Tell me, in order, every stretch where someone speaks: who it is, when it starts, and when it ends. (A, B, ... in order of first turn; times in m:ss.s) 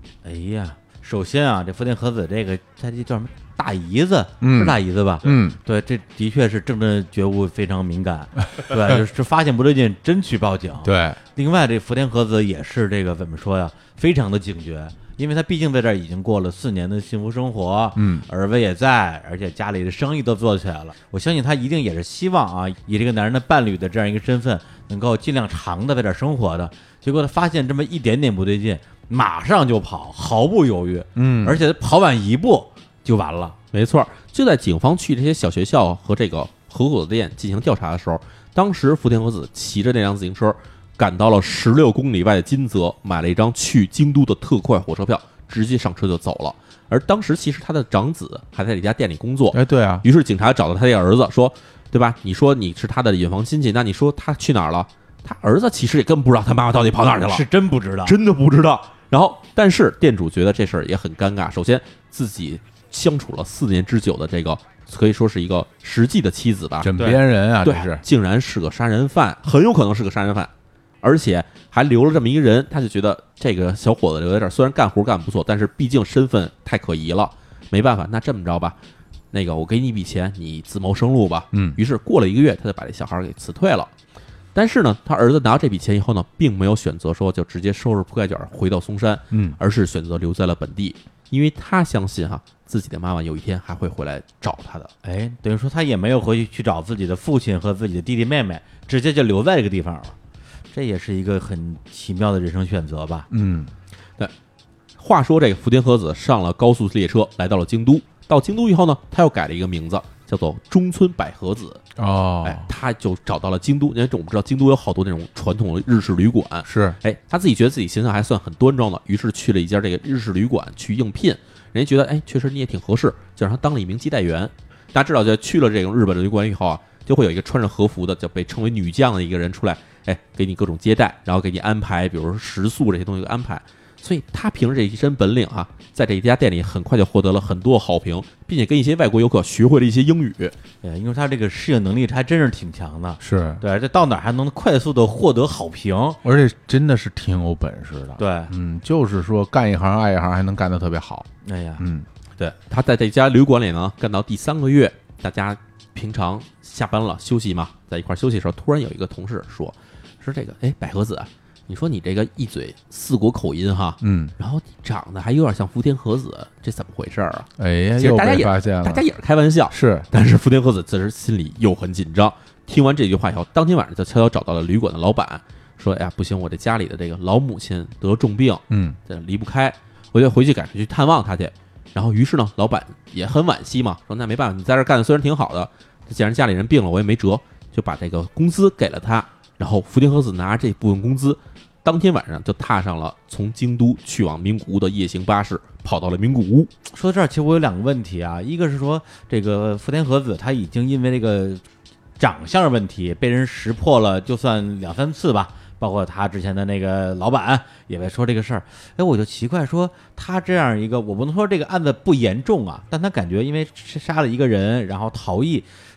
0:00.2-0:33.6 A
0:04.4-0:05.6 B
0:10.8-0:11.2 B
0:18.0-0:18.2 B
0:31.2-0:31.6 B
0:33.7-0:57.4 C
0:49.5-0:50.0 B
0:57.2-0:58.2 A
0:58.0-1:06.9 C
1:06.8-1:08.0 B
1:07.6-1:10.5 C
1:11.0-1:18.8 C
1:19.3-1:23.9 C
1:21.5-1:21.8 B
1:24.5-1:34.9 C
1:29.3-1:29.6 B
1:35.0-1:40.2 A
1:40.7-1:43.3 A
1:43.3-1:43.7 B
1:45.0-1:51.8 C
1:52.0-1:52.7 B
1:52.4-2:20.5 C
1:56.6-1:57.0 B
2:20.8-2:26.2 A
2:23.2-2:23.6 B
2:26.2-2:31.3 B
2:28.2-2:28.5 A
2:31.4-2:31.8 A
2:31.8-2:32.1 B
2:32.4-3:16.7 C
2:44.0-2:44.3 B
2:47.6-2:49.0 B
2:49.7-2:50.1 B
2:58.7-2:59.0 B
3:16.9-3:21.6 A
3:22.2-3:35.7 A